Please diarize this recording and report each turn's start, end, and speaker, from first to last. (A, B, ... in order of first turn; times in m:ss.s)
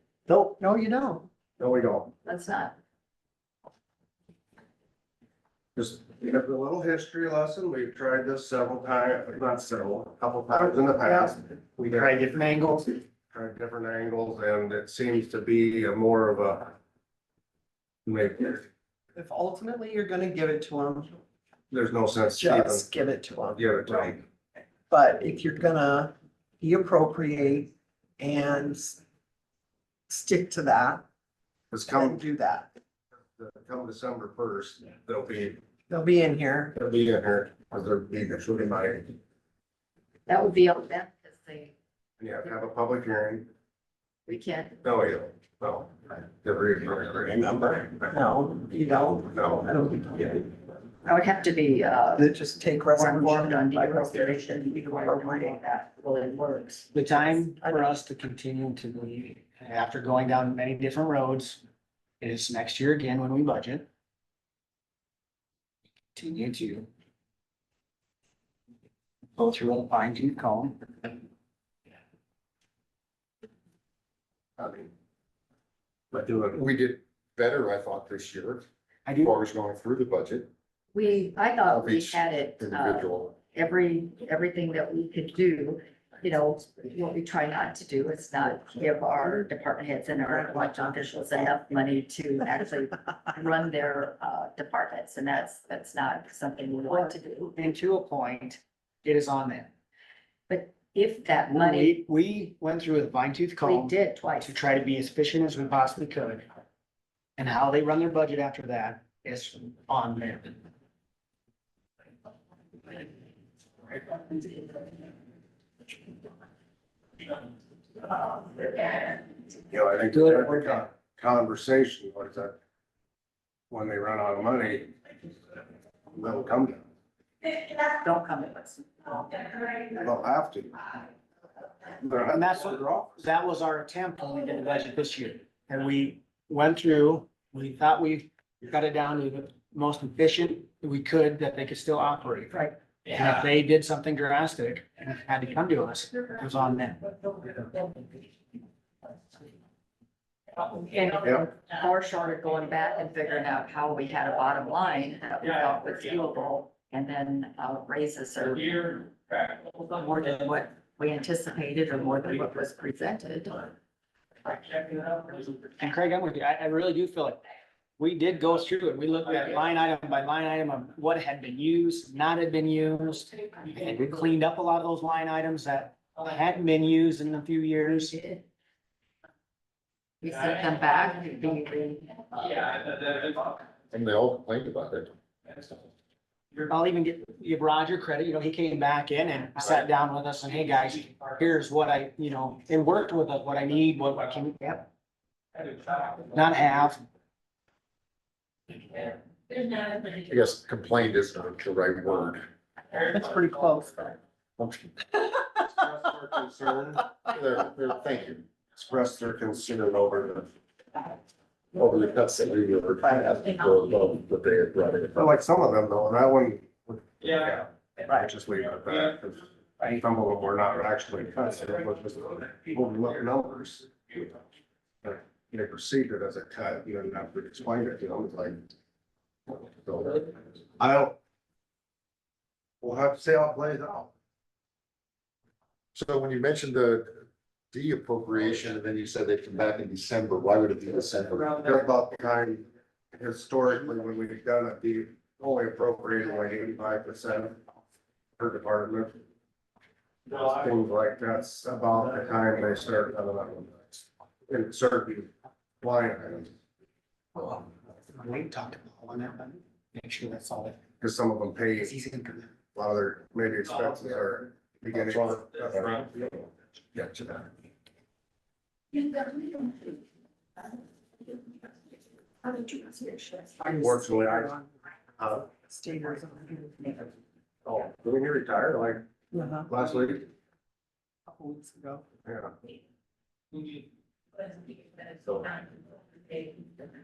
0:00.3-0:01.3 A
0:01.6-0:02.2 B
0:02.2-0:02.7 C
0:05.8-0:12.1 B
0:10.5-0:11.3 A
0:11.8-0:13.0 D
0:13.3-0:16.7 B
0:18.0-0:18.6 B
0:19.1-0:21.1 A
0:21.7-0:22.9 B
0:22.4-0:23.6 A
0:23.5-0:24.2 B
0:24.9-0:29.0 A
0:30.1-0:31.0 A
0:31.7-0:32.2 B
0:31.9-0:32.7 A
0:33.4-0:35.6 B
0:35.9-0:36.7 A
0:36.8-0:39.1 B
0:40.3-0:41.8 C
0:42.2-0:43.5 B
0:44.2-0:44.8 C
0:44.8-0:48.1 B
0:48.1-0:50.4 A
0:49.3-0:49.6 B
0:51.0-0:52.3 C
0:52.2-0:55.6 A
0:52.9-0:57.0 C
0:56.9-1:01.6 D
0:57.6-0:57.9 A
1:02.2-1:03.9 D
1:06.1-1:06.9 D
1:09.4-1:11.0 D
1:14.6-1:14.9 B
1:16.1-1:16.6 B
1:16.5-1:18.6 E
1:19.0-1:19.4 D
1:19.2-1:20.5 E
1:20.9-1:37.6 C
1:21.7-1:23.3 E
1:30.2-1:31.0 A
1:37.6-1:39.7 D
1:40.5-1:42.0 C
1:41.5-1:46.4 D
1:43.6-1:44.7 C
1:47.4-1:50.6 D
1:59.7-2:02.5 B
2:00.1-2:00.8 D
2:03.7-2:04.9 B
2:06.1-2:06.8 B
2:07.6-2:09.9 C
2:09.9-2:10.9 B
2:12.0-2:12.5 B
2:12.3-2:27.3 D
2:30.6-2:39.1 C
2:39.7-2:43.7 C
2:45.8-2:47.4 D
2:48.0-2:58.2 D
2:58.0-2:58.4 C
3:00.2-3:02.8 C
3:03.9-3:05.1 E
3:06.6-3:14.8 D
3:16.2-3:17.0 D
3:20.1-3:22.5 E
3:23.0-3:24.1 A
3:24.6-3:25.0 E
3:25.6-3:27.0 B
3:27.2-3:28.4 E
3:28.7-3:30.5 B
3:31.7-3:35.3 E
3:35.1-3:44.3 B
3:45.0-3:48.6 B
3:49.5-3:51.1 B
3:52.8-3:54.1 B
3:55.9-4:01.6 E
4:01.6-4:07.6 B
4:08.4-4:09.2 B
4:10.3-4:15.3 B
4:15.8-4:16.5 B
4:17.3-4:20.8 D
4:21.0-4:21.9 B
4:21.8-4:22.5 D
4:22.7-4:27.4 B
4:23.7-4:24.0 D
4:24.9-4:26.0 E
4:32.6-4:34.7 A
4:33.7-4:34.5 B
4:35.2-4:35.4 B
4:35.5-4:37.1 A
4:37.6-4:39.0 B
4:39.3-4:39.7 A
4:39.7-4:40.3 B
4:41.3-4:42.0 A
4:42.2-4:42.5 B